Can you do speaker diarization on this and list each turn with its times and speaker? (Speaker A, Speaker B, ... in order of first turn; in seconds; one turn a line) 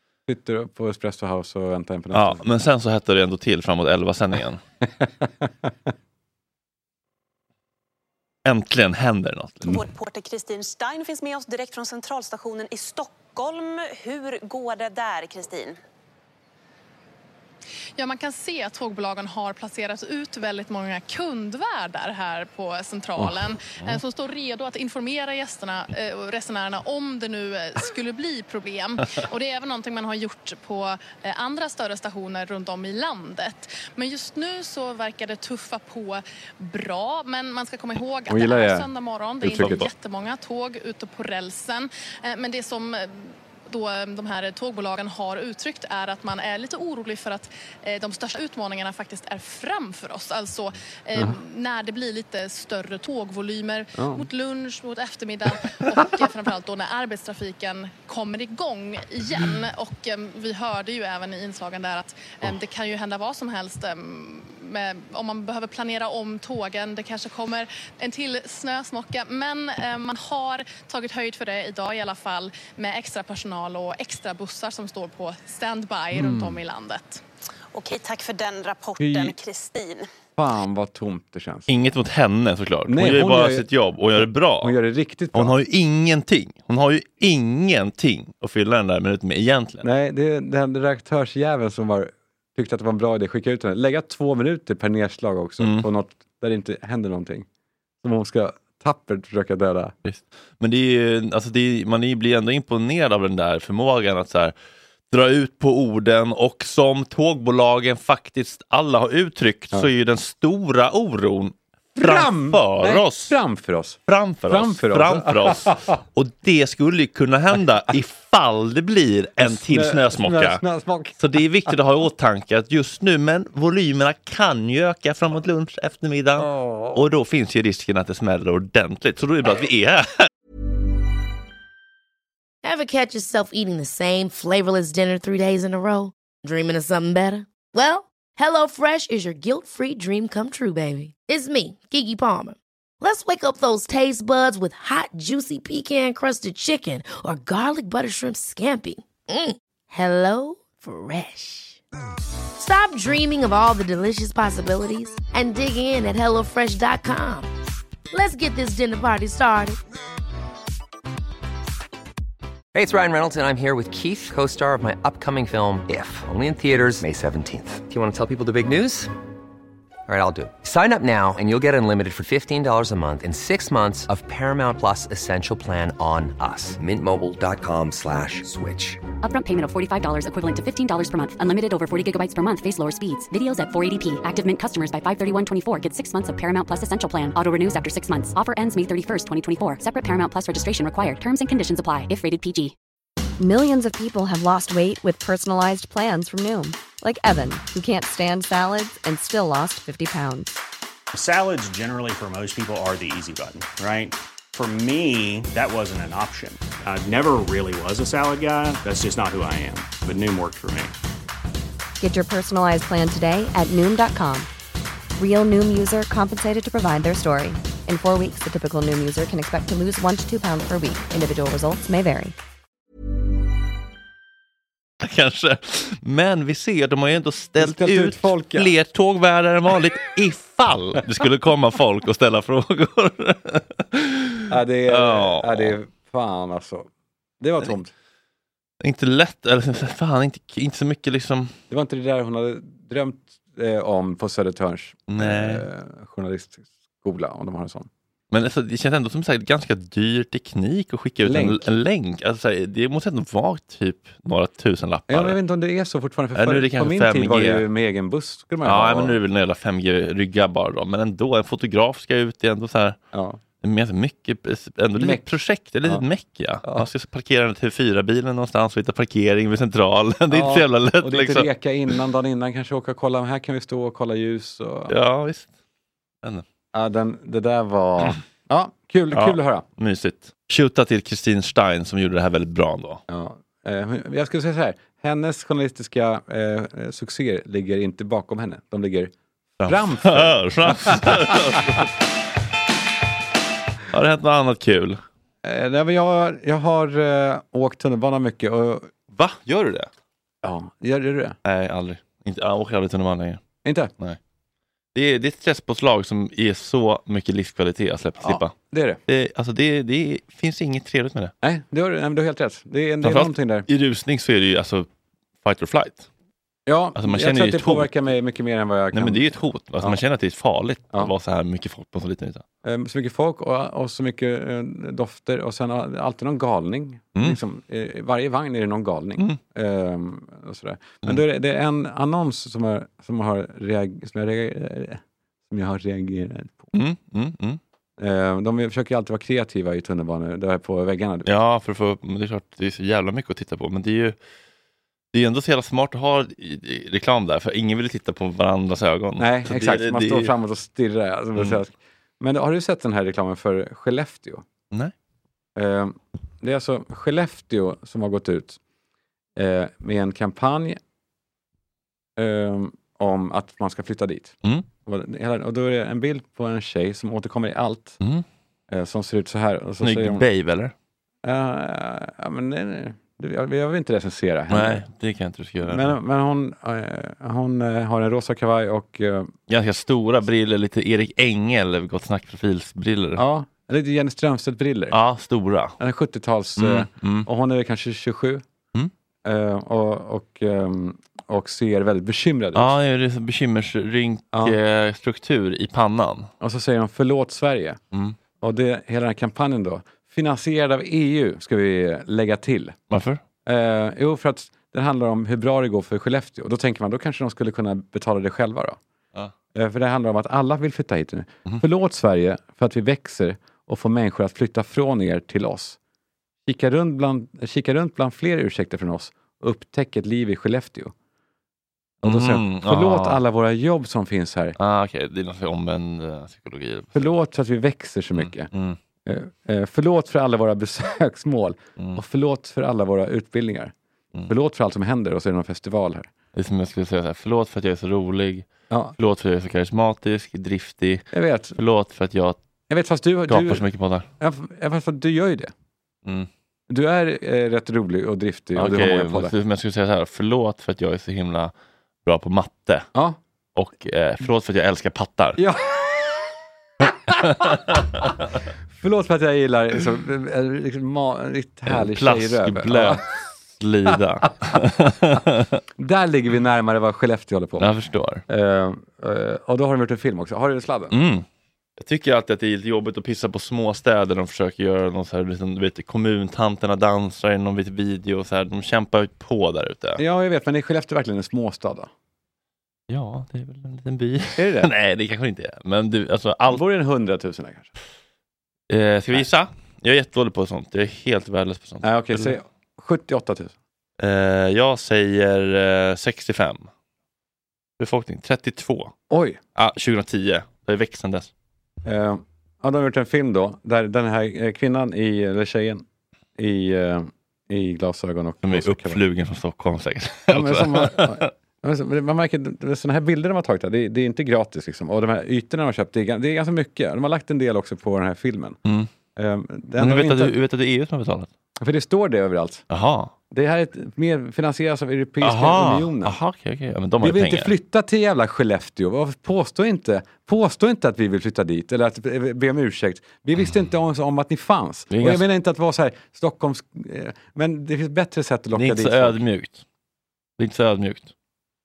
Speaker A: 0.3-2.4
Speaker B: 2.1-4.6
Speaker A: 5.0-5.7
Speaker B: 8.4-9.8
Speaker C: 9.7-15.8
Speaker D: 17.9-77.2
Speaker A: 38.3-38.9
Speaker A: 39.4-39.8
Speaker B: 39.4-39.9
Speaker A: 54.0-54.2
Speaker A: 76.1-76.6
Speaker C: 77.7-80.1
Speaker A: 79.0-79.3
Speaker A: 80.4-81.7
Speaker B: 81.7-84.7
Speaker A: 82.9-85.5
Speaker B: 85.3-89.8
Speaker A: 89.8-97.5
Speaker B: 95.6-95.9
Speaker A: 98.0-99.9
Speaker B: 100.0-104.5
Speaker B: 105.1-113.4
Speaker A: 112.0-115.9
Speaker B: 114.1-120.6
Speaker A: 119.4-121.7
Speaker B: 121.2-130.3
Speaker A: 126.3-127.0
Speaker E: 132.6-151.8
Speaker E: 152.6-157.5
Speaker E: 158.1-159.8
Speaker F: 162.7-169.1
Speaker F: 170.1-179.0
Speaker G: 179.2-192.7
Speaker H: 193.4-200.5
Speaker I: 201.1-210.9
Speaker H: 212.0-214.5
Speaker H: 215.2-222.3
Speaker B: 225.0-235.8
Speaker A: 227.6-228.7
Speaker A: 234.5-236.9
Speaker A: 237.4-237.9
Speaker B: 238.8-241.5
Speaker A: 241.7-247.9
Speaker B: 245.1-245.6
Speaker B: 248.3-255.4
Speaker A: 251.2-251.7
Speaker A: 255.1-259.2
Speaker B: 256.3-257.6
Speaker B: 258.6-263.0
Speaker A: 263.1-263.4
Speaker B: 263.6-271.5
Speaker A: 265.0-265.3
Speaker A: 270.3-274.9
Speaker B: 274.9-275.5
Speaker A: 276.7-279.6
Speaker B: 279.1-283.0
Speaker A: 283.1-289.1
Speaker B: 289.6-291.9
Speaker A: 289.6-291.5
Speaker B: 293.9-295.0
Speaker A: 295.4-298.9
Speaker B: 299.1-299.9
Speaker A: 300.4-301.4
Speaker B: 301.4-303.4
Speaker A: 303.6-303.9
Speaker B: 304.9-308.5
Speaker A: 308.2-309.0
Speaker B: 309.1-311.3
Speaker A: 311.4-313.6
Speaker B: 313.0-314.9
Speaker B: 315.4-316.1
Speaker A: 316.6-320.0
Speaker B: 316.9-317.9
Speaker B: 318.9-322.4
Speaker A: 322.6-336.7
Speaker B: 336.7-337.6
Speaker A: 338.0-341.3
Speaker B: 341.2-344.2
Speaker B: 345.1-350.3
Speaker A: 349.2-354.4
Speaker A: 355.6-358.6
Speaker A: 359.4-360.8
Speaker A: 362.2-368.0
Speaker A: 368.7-370.2
Speaker B: 369.8-370.7
Speaker A: 371.2-374.8
Speaker B: 374.5-376.0
Speaker A: 375.6-379.3
Speaker B: 379.5-383.2
Speaker A: 383.1-384.9
Speaker B: 384.9-385.8
Speaker A: 385.8-388.4
Speaker B: 386.6-387.3
Speaker A: 389.2-392.7
Speaker B: 392.5-396.3
Speaker A: 396.4-397.8
Speaker A: 398.4-402.8
Speaker B: 402.9-403.2
Speaker A: 403.4-408.8
Speaker A: 409.5-415.8
Speaker A: 416.4-420.9
Speaker B: 422.0-423.2
Speaker A: 422.0-424.6
Speaker B: 424.6-427.1
Speaker A: 426.9-428.5
Speaker B: 428.1-428.8
Speaker A: 429.1-433.7
Speaker A: 434.3-436.1
Speaker B: 436.3-442.4
Speaker A: 438.7-438.9
Speaker A: 441.1-441.6
Speaker A: 442.7-443.6
Speaker B: 443.3-444.1
Speaker A: 444.2-445.5
Speaker A: 446.7-449.3
Speaker B: 448.6-451.5
Speaker B: 452.0-452.9
Speaker A: 452.9-453.2
Speaker B: 453.6-455.4
Speaker A: 455.4-456.2
Speaker A: 456.9-458.0
Speaker B: 457.4-457.8
Speaker A: 458.7-463.0
Speaker B: 461.7-465.6
Speaker A: 465.8-467.8
Speaker B: 467.6-468.2
Speaker A: 468.3-470.9
Speaker B: 470.9-471.2
Speaker B: 471.8-480.0
Speaker A: 480.0-481.9
Speaker B: 482.9-486.6
Speaker A: 484.4-484.7
Speaker A: 486.5-487.7
Speaker B: 488.7-492.4
Speaker A: 491.8-493.6
Speaker B: 494.0-496.7
Speaker B: 497.8-498.9
Speaker A: 499.1-499.4
Speaker B: 499.5-501.3
Speaker A: 501.8-505.8
Speaker A: 506.4-509.0
Speaker B: 508.4-511.3
Speaker A: 510.3-518.6
Speaker B: 518.6-518.9
Speaker A: 519.1-520.3
Speaker B: 519.8-521.3
Speaker A: 521.6-522.6
Speaker B: 522.7-523.1
Speaker A: 523.3-526.1
Speaker B: 525.2-527.5
Speaker A: 527.0-539.2
Speaker B: 534.9-535.2
Speaker B: 538.5-539.6
Speaker B: 540.4-541.1